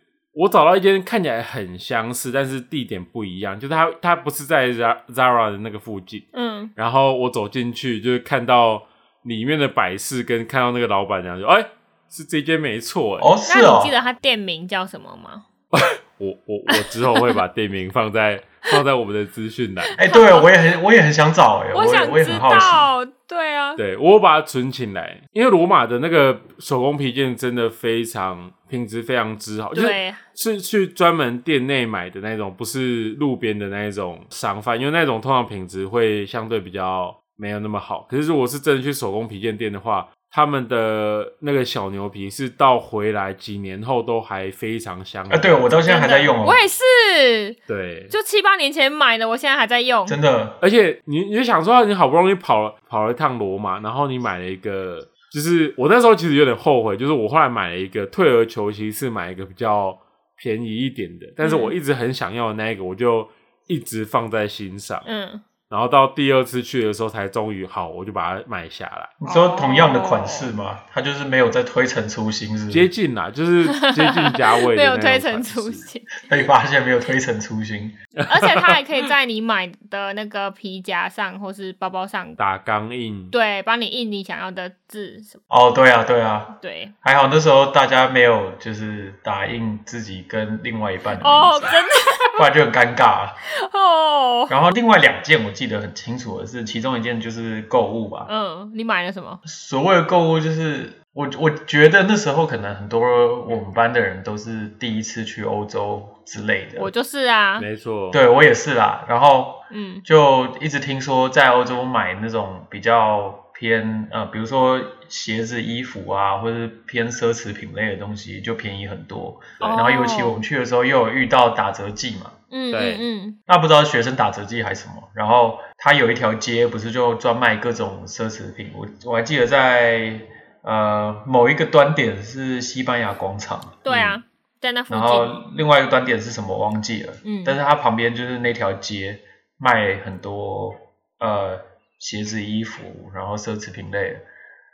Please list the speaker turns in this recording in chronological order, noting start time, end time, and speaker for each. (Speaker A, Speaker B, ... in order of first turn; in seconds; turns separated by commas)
Speaker A: 0.3-13.3, Speaker B: 6.3-6.7, Speaker C: 13.2-13.9, Speaker B: 13.5-15.4, Speaker A: 15.7-20.0, Speaker B: 16.7-17.3, Speaker B: 20.0-20.5, Speaker C: 20.0-22.9, Speaker B: 21.7-23.8, Speaker A: 23.8-45.7, Speaker B: 29.7-30.2, Speaker C: 45.3-46.6, Speaker B: 45.9-47.6, Speaker A: 47.7-48.1, Speaker B: 48.1-50.2, Speaker C: 50.1-50.6, Speaker A: 50.6-65.1, Speaker B: 61.4-61.7, Speaker B: 65.1-65.4, Speaker A: 65.7-69.2, Speaker C: 69.2-72.9, Speaker B: 69.3-70.5, Speaker A: 72.7-75.9, Speaker B: 73.7-76.2, Speaker C: 76.3-78.0, Speaker A: 78.2-78.8, Speaker B: 78.3-82.4, Speaker A: 82.4-83.3, Speaker B: 83.3-85.4, Speaker C: 85.5-91.8, Speaker B: 86.6-87.0, Speaker B: 91.2-92.4, Speaker C: 92.3-93.4, Speaker B: 93.5-94.5, Speaker C: 94.5-98.3, Speaker B: 98.3-99.4, Speaker C: 99.5-106.9, Speaker B: 106.8-107.7, Speaker A: 107.6-108.2, Speaker C: 108.1-122.3, Speaker B: 109.7-110.0, Speaker B: 119.6-120.4, Speaker B: 122.5-123.4, Speaker A: 122.7-123.0, Speaker C: 123.5-133.8, Speaker B: 133.8-135.4, Speaker A: 133.9-134.2, Speaker C: 134.9-144.2, Speaker B: 137.2-137.6